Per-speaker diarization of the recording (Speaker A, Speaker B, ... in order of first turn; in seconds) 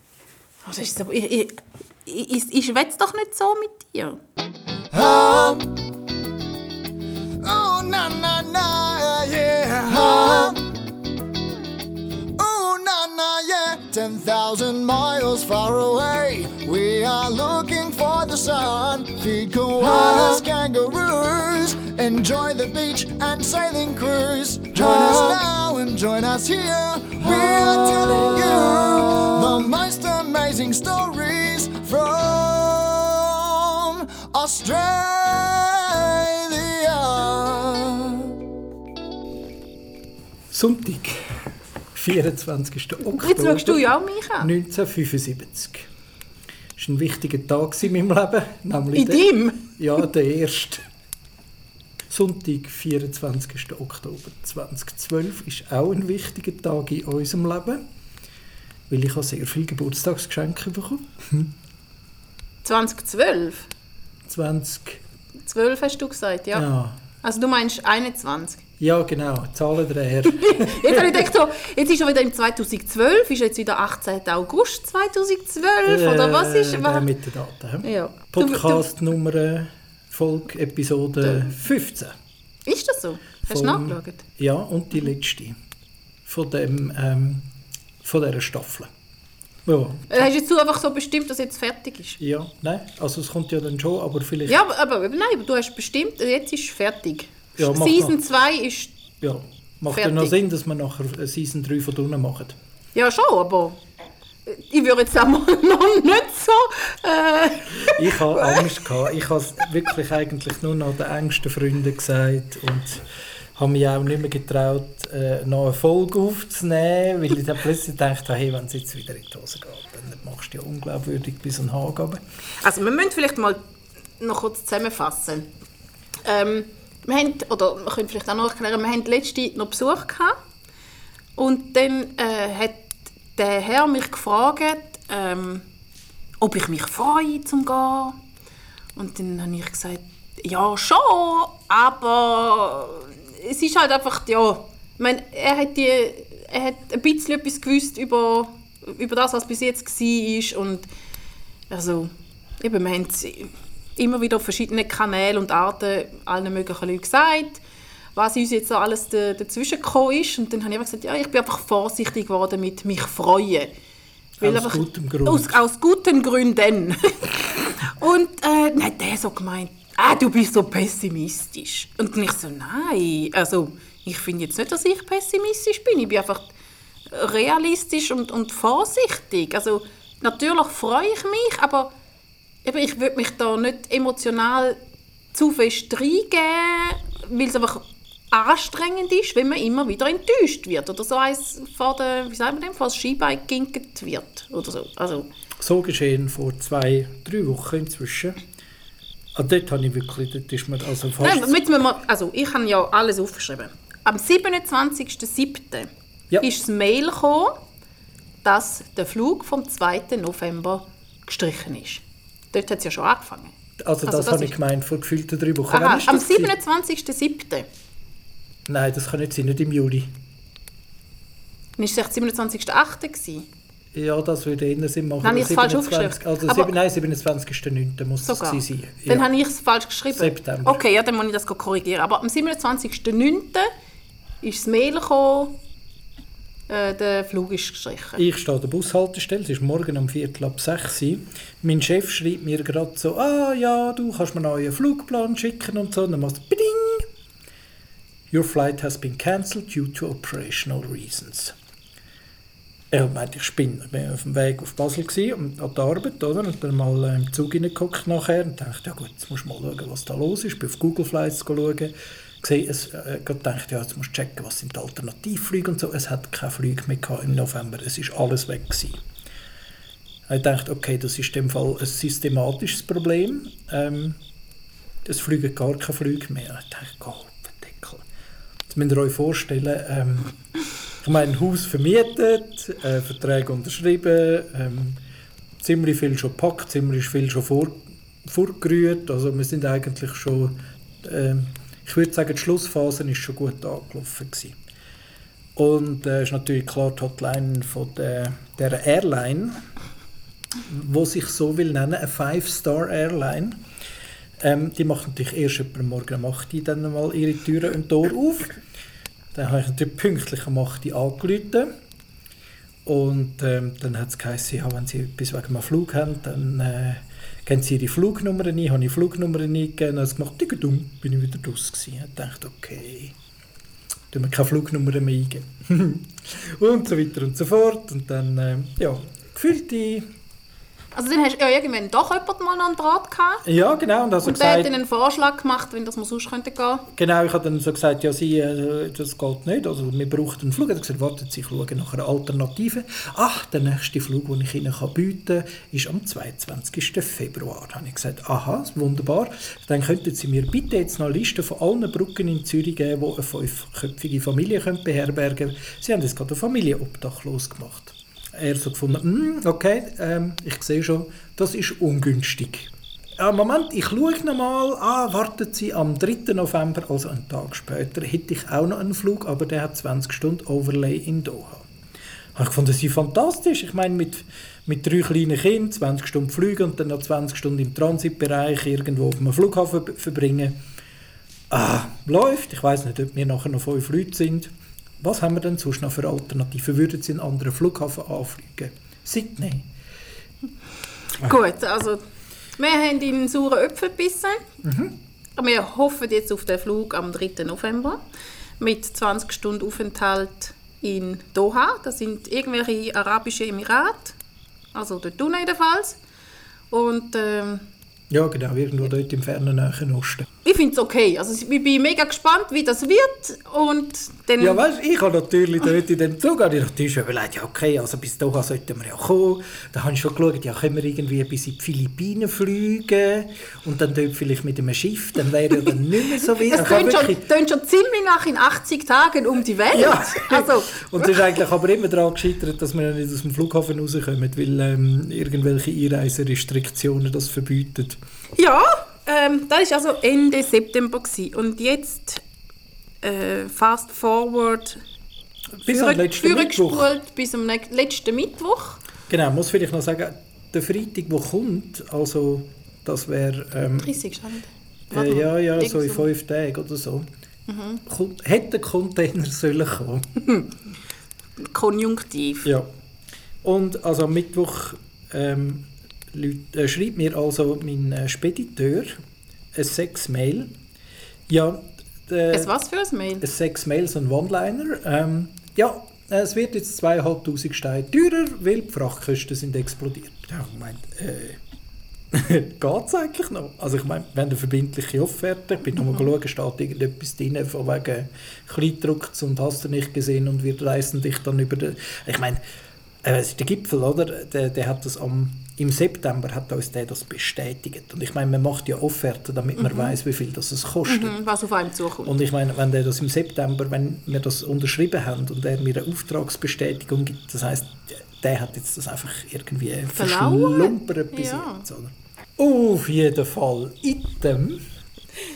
Speaker A: 0.6-1.6, 2.1-4.2, 43.1-44.5, 49.0-49.8, 62.6-63.7, 65.4-66.7, 67.2-68.6, 70.3-77.1, 77.8-78.8, 82.7-84.2, 90.1-92.2, 94.5-99.0, 99.9-100.3, 103.0-103.8, 104.5-108.7, 122.6-123.6, 124.2-125.5, 126.2-130.4, 131.4-135.7, 136.4-138.2, 139.0-150.9, 151.7-157.6, 158.2-163.7, 164.4-176.5, 177.1-181.9, 182.7-184.8, 185.3-195.3, 201.2-205.9, 206.4-207.6, 208.4-213.5, 214.1-214.6, 215.7-217.7, 221.8-223.5, 225.2-226.8, 228.2-233.7, 234.4-235.6, 236.7-238.2, 330.9-333.4, 334.2-336.9, 391.1-392.0, 392.6-394.4, 395.4-398.0, 398.6-404.2, 404.7-406.0, 406.7-407.6, 410.4-414.6, 426.4-431.4, 438.4-442.2, 443.0-444.8, 445.7-448.8, 453.8-456.1, 457.5-457.8, 461.4-462.5, 472.3-473.2, 499.6-500.0, 500.9-502.1, 509.9-511.6
Speaker B: 4.9-5.7, 7.4-10.6, 12.4-38.3
Speaker C: 40.5-41.2, 42.0-43.9, 44.4-45.9, 46.8-50.8, 52.1-57.8, 58.9-61.5, 64.3-65.0, 66.5-67.0, 68.8-71.3, 75.8-82.1, 83.5-85.5, 86.3-87.4, 88.0-88.9, 89.7-90.3, 92.2-94.6, 97.6-98.2, 99.2-102.6, 107.8-113.0, 113.6-122.2, 164.4-165.6, 195.6-198.4, 199.3-201.6, 213.8-216.5, 218.7-220.1, 223.9-229.3, 230.1-230.8, 238.2-247.1, 248.3-251.6, 252.9-269.0, 270.3-274.2, 275.1-278.0, 278.7-280.3, 281.0-285.0, 285.6-294.6, 295.6-299.5, 300.6-303.6, 304.4-308.6, 309.3-311.7, 312.9-323.1, 324.1-330.1, 333.4-334.7, 336.9-371.7, 372.4-380.6, 381.5-389.7, 394.6-395.0, 408.1-410.3, 414.4-427.2, 429.7-438.0, 445.6-446.9, 449.1-454.0, 454.9-457.1, 457.9-460.0, 463.4-468.9, 469.6-470.5, 471.3-472.5, 473.2-481.4, 482.1-492.4, 493.0-501.2, 502.0-514.6